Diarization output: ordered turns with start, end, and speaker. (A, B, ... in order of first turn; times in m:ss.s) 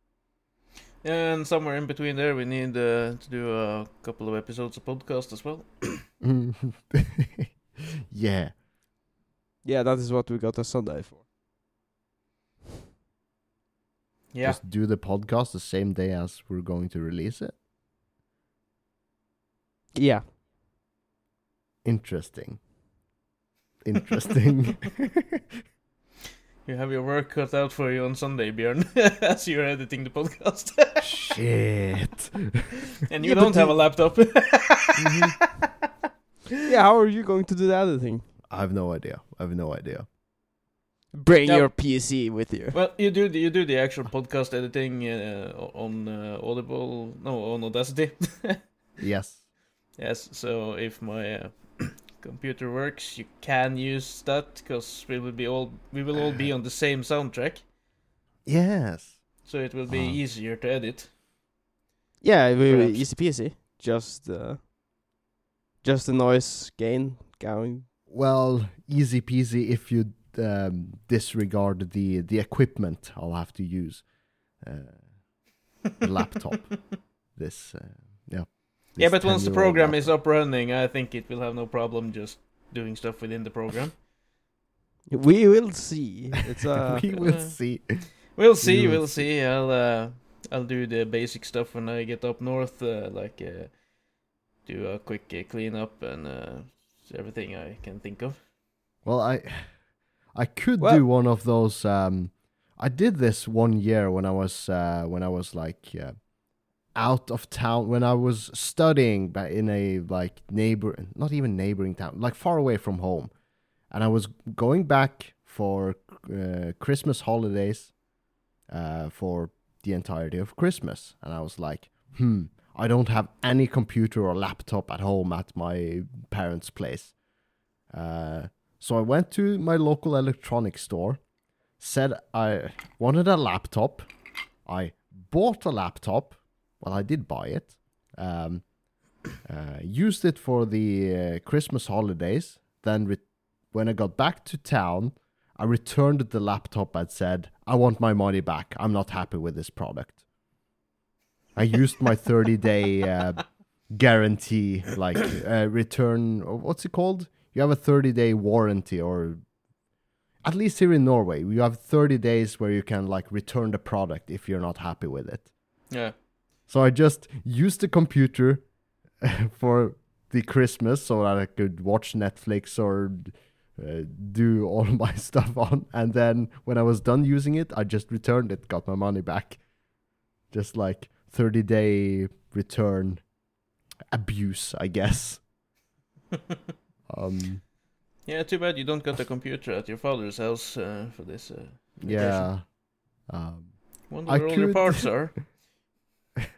0:01.0-0:06.1 A
0:06.2-0:07.5 B
0:08.1-0:08.5 B
0:09.6-0:11.2 C
0:14.3-0:14.6 A
0:14.4-0:17.6 B
0:19.9-0:20.2 C
0:21.8-0:22.6 B
0:23.8-0:25.3 B
0:26.6-0:31.2 A
0:31.0-0:32.6 B
0:33.1-0:35.0 A
0:33.2-0:34.0 C
0:35.0-0:35.3 B
0:36.6-0:38.3 C
0:38.5-0:40.0 B
0:41.1-0:42.8 C
0:41.4-0:42.1 A
0:42.7-0:48.8 A
0:49.0-0:49.4 B
0:49.9-0:57.6 A
0:58.4-1:00.2 B
0:59.4-1:01.1 A
1:02.2-1:04.6 C
1:02.6-1:03.1 A
1:05.8-1:07.9 C
1:08.1-1:15.4 B
1:16.0-1:20.2 B
1:19.0-1:24.0 A
1:25.1-1:27.3 C
1:26.8-1:29.3 B
1:27.2-1:33.8 A
1:34.6-1:38.4 A
1:39.0-1:39.8 B
1:40.3-1:46.3 B
1:46.9-1:53.3 B
1:53.9-1:58.0 B
1:58.6-2:07.2 B
2:07.9-2:11.2 B
2:11.8-2:14.1 B
2:14.6-2:18.8 B
2:19.3-2:30.2 B
2:31.5-2:39.5 B
2:40.4-2:45.5 B
2:45.9-2:46.1 A
2:46.7-2:59.7 B
3:00.5-3:03.3 B
3:04.1-3:05.4 B
3:07.1-3:07.6 B
3:08.2-3:12.4 A
3:12.0-3:15.5 B
3:12.1-3:12.4 C
3:14.1-3:15.4 A